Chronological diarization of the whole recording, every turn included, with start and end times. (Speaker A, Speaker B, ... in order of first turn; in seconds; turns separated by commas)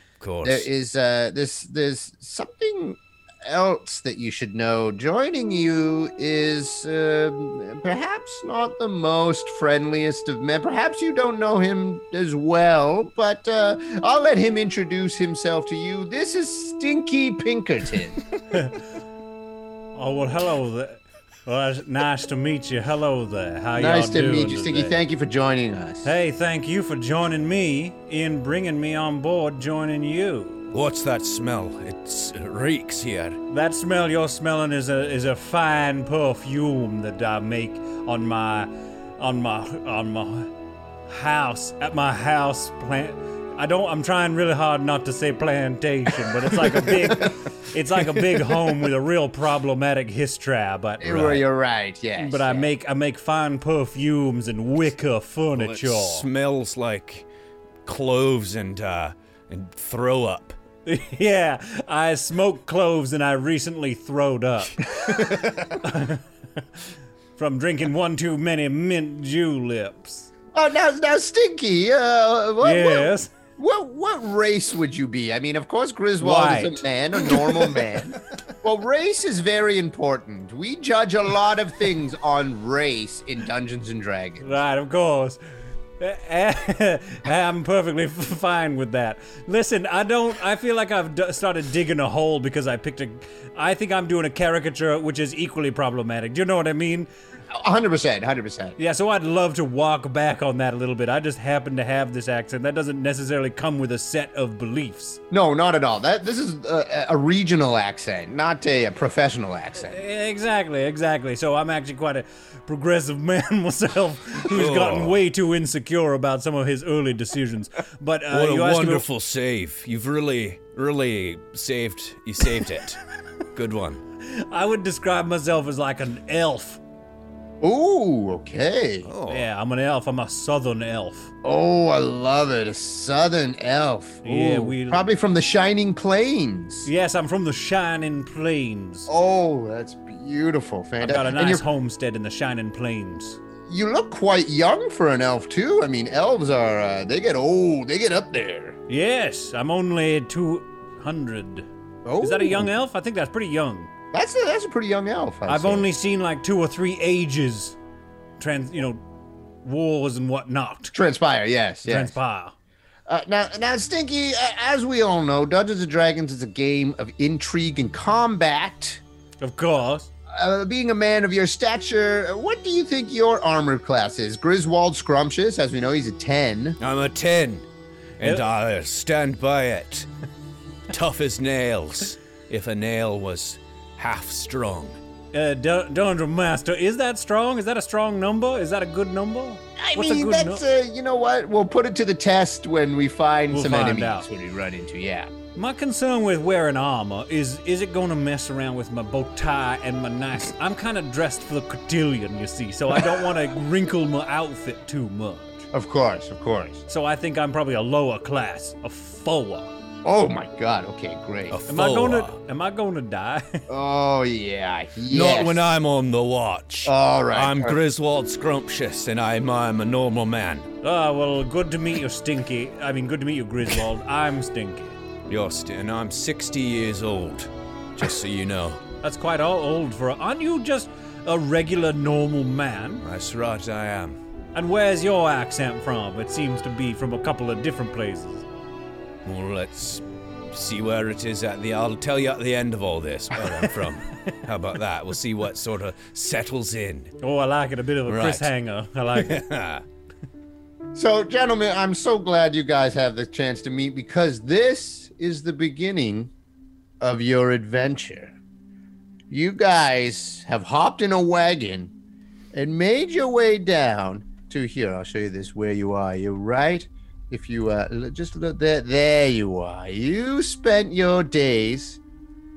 Speaker A: 0.2-0.7, Speaker B: 0.4-18.2, Speaker C: 18.5-18.8, Speaker C: 19.9-25.0, Speaker B: 23.8-26.1, Speaker C: 26.0-30.7, Speaker A: 30.7-33.4, Speaker C: 33.5-40.5, Speaker C: 41.1-51.5, Speaker B: 46.7-47.3, Speaker B: 51.0-52.7, Speaker C: 52.1-56.2, Speaker A: 55.5-57.2, Speaker A: 57.9-60.5, Speaker C: 60.9-66.6, Speaker A: 64.9-65.8, Speaker C: 67.4-70.3, Speaker B: 70.5-84.5, Speaker C: 72.6-73.3, Speaker C: 76.2-77.5, Speaker C: 84.4-85.4, Speaker C: 86.0-97.1, Speaker B: 97.5-98.8, Speaker C: 98.8-105.2, Speaker B: 105.3-110.0, Speaker C: 109.8-119.0, Speaker A: 114.5-115.2, Speaker A: 118.3-123.0, Speaker A: 123.5-124.0, Speaker C: 124.2-126.8, Speaker B: 127.6-129.1, Speaker A: 129.0-129.5, Speaker C: 129.3-131.3, Speaker B: 131.4-136.9, Speaker C: 134.2-135.1, Speaker C: 136.8-139.1, Speaker B: 139.1-141.6, Speaker C: 141.0-143.4, Speaker B: 143.7-148.8, Speaker C: 148.9-151.7, Speaker B: 152.0-152.7, Speaker C: 152.2-153.9, Speaker B: 154.1-155.9, Speaker C: 155.4-157.8, Speaker C: 158.4-159.0, Speaker C: 159.6-160.9, Speaker B: 160.9-162.1, Speaker C: 161.8-162.5, Speaker B: 163.1-169.0, Speaker C: 169.4-170.1, Speaker B: 170.3-176.8, Speaker A: 176.8-177.7, Speaker A: 178.2-180.1, Speaker A: 180.9-185.0, Speaker C: 185.3-190.6, Speaker B: 189.8-195.3, Speaker C: 193.5-194.3, Speaker C: 195.5-205.7, Speaker B: 205.7-206.8, Speaker C: 206.9-209.7, Speaker B: 210.0-211.6, Speaker A: 211.5-212.3, Speaker C: 211.7-213.6, Speaker B: 213.7-215.6, Speaker A: 215.1-220.7, Speaker B: 216.8-217.8, Speaker C: 220.8-225.0, Speaker A: 225.3-228.8, Speaker C: 229.0-233.0, Speaker A: 233.0-234.2, Speaker C: 234.5-238.4, Speaker A: 239.2-247.1, Speaker C: 247.2-249.4, Speaker A: 248.1-248.5, Speaker A: 249.1-249.8, Speaker B: 250.9-256.3, Speaker B: 257.0-258.4, Speaker B: 259.3-261.9, Speaker B: 262.5-272.0